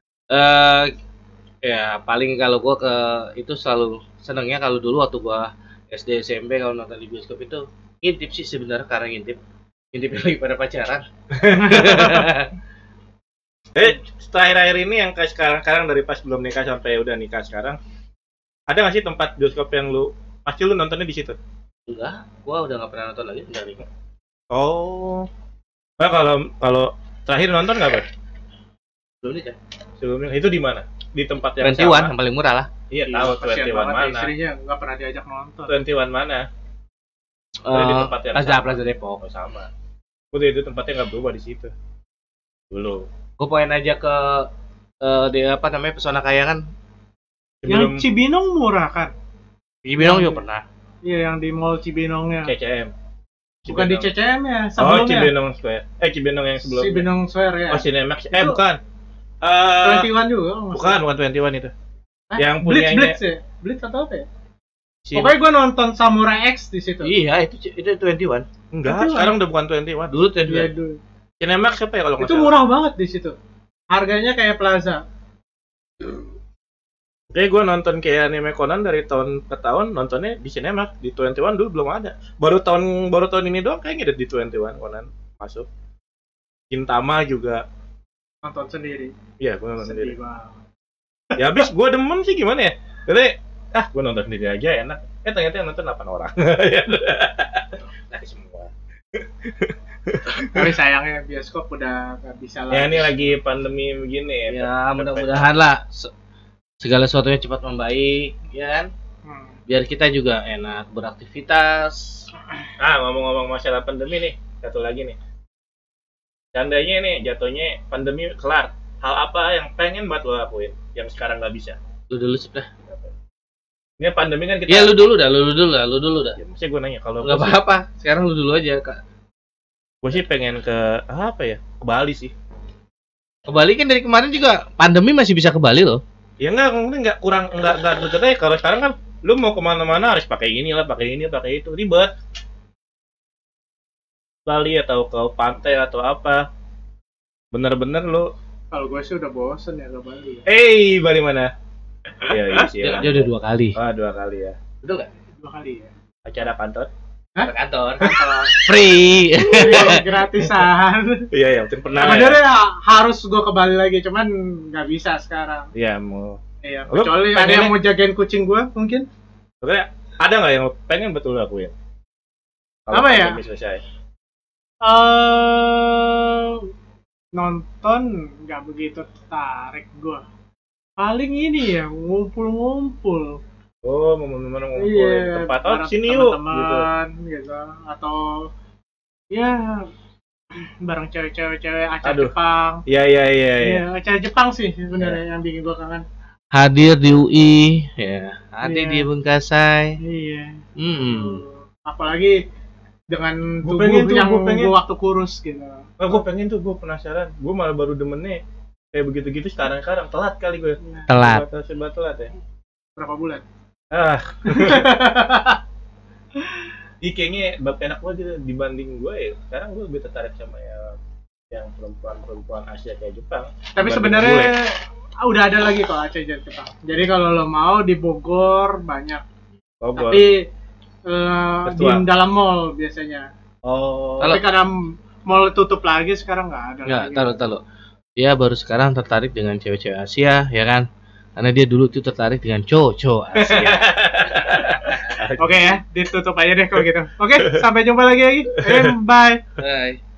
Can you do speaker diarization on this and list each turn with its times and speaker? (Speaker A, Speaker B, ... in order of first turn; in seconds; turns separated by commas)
Speaker A: 0.3-0.9, Speaker A: 1.6-9.4, Speaker A: 9.9-12.5, Speaker B: 11.3-12.3, Speaker B: 13.7-17.8, Speaker B: 18.7-21.4, Speaker A: 21.9-23.8, Speaker B: 24.5-25.3, Speaker B: 26.0-28.1, Speaker A: 29.2-29.6, Speaker B: 30.0-32.1, Speaker A: 31.6-32.7, Speaker B: 32.9-34.3, Speaker C: 33.0-35.7, Speaker B: 35.7-36.5, Speaker A: 37.6-39.2, Speaker B: 37.7-39.7, Speaker B: 40.3-41.7, Speaker B: 42.7-43.1, Speaker A: 43.4-44.5, Speaker A: 45.0-46.6, Speaker B: 47.6-48.0, Speaker C: 47.6-49.1, Speaker A: 49.8-50.6, Speaker C: 50.0-50.4, Speaker C: 51.0-52.5, Speaker B: 52.4-52.9, Speaker B: 53.6-54.1, Speaker C: 53.7-55.3, Speaker B: 54.8-57.1, Speaker C: 56.7-58.6, Speaker B: 57.7-58.8, Speaker B: 59.4-60.1, Speaker C: 59.8-61.0, Speaker B: 60.7-61.7, Speaker C: 62.3-64.2, Speaker B: 62.4-63.2, Speaker B: 65.0-65.3, Speaker C: 65.1-67.1, Speaker A: 67.0-68.5, Speaker B: 68.7-70.1, Speaker C: 68.8-69.3, Speaker A: 70.1-70.7, Speaker C: 70.5-71.0, Speaker B: 71.4-72.5, Speaker C: 72.2-73.3, Speaker C: 73.9-75.0, Speaker B: 77.3-85.7, Speaker B: 86.7-87.6, Speaker C: 88.4-89.1, Speaker B: 89.4-90.2, Speaker C: 89.8-90.6, Speaker B: 91.3-100.7, Speaker C: 100.4-103.3, Speaker B: 102.7-105.5, Speaker A: 104.5-106.1, Speaker A: 106.8-108.9, Speaker C: 109.2-109.5, Speaker A: 109.7-112.3, Speaker B: 112.8-115.2, Speaker B: 116.5-121.8, Speaker A: 122.1-122.7, Speaker B: 124.0-125.0, Speaker A: 124.7-126.4, Speaker B: 126.4-127.6, Speaker A: 127.2-129.0, Speaker B: 130.0-132.3, Speaker A: 133.5-136.0, Speaker B: 136.4-142.1, Speaker B: 144.4-146.4, Speaker B: 147.5-148.3, Speaker C: 148.7-150.4, Speaker B: 150.4-151.5, Speaker B: 152.2-154.6, Speaker A: 152.8-153.8, Speaker A: 154.8-155.1, Speaker C: 155.4-155.9, Speaker B: 156.2-156.9, Speaker C: 157.3-158.6, Speaker A: 157.4-160.0, Speaker C: 159.4-161.3, Speaker B: 161.3-162.4, Speaker C: 162.0-165.7, Speaker B: 165.7-167.7, Speaker C: 166.6-169.1, Speaker B: 169.6-171.7, Speaker B: 172.9-173.8, Speaker C: 172.9-173.4, Speaker C: 174.8-176.7, Speaker C: 177.3-180.2, Speaker C: 181.0-183.4, Speaker B: 183.8-186.8, Speaker C: 184.8-188.5, Speaker C: 189.3-189.9, Speaker C: 190.5-192.8, Speaker B: 192.0-192.3, Speaker B: 192.9-193.8, Speaker C: 193.6-196.0, Speaker A: 196.5-200.0, Speaker C: 198.6-199.1, Speaker C: 200.0-202.4, Speaker A: 200.8-201.4, Speaker C: 203.1-205.9, Speaker B: 203.6-204.7, Speaker B: 206.0-208.4, Speaker B: 208.9-212.3, Speaker A: 211.1-211.4, Speaker C: 213.0-213.4, Speaker B: 213.9-214.9, Speaker C: 214.5-215.6, Speaker B: 217.0-221.0, Speaker B: 221.5-224.5, Speaker C: 223.7-229.2, Speaker B: 229.8-230.3, Speaker C: 229.9-230.5, Speaker C: 231.1-233.3, Speaker B: 231.7-232.0, Speaker B: 233.6-234.4, Speaker C: 234.3-237.4, Speaker A: 236.8-237.6, Speaker A: 238.2-245.2, Speaker B: 243.3-245.8, Speaker C: 245.4-249.4, Speaker B: 248.5-248.9, Speaker A: 249.6-250.0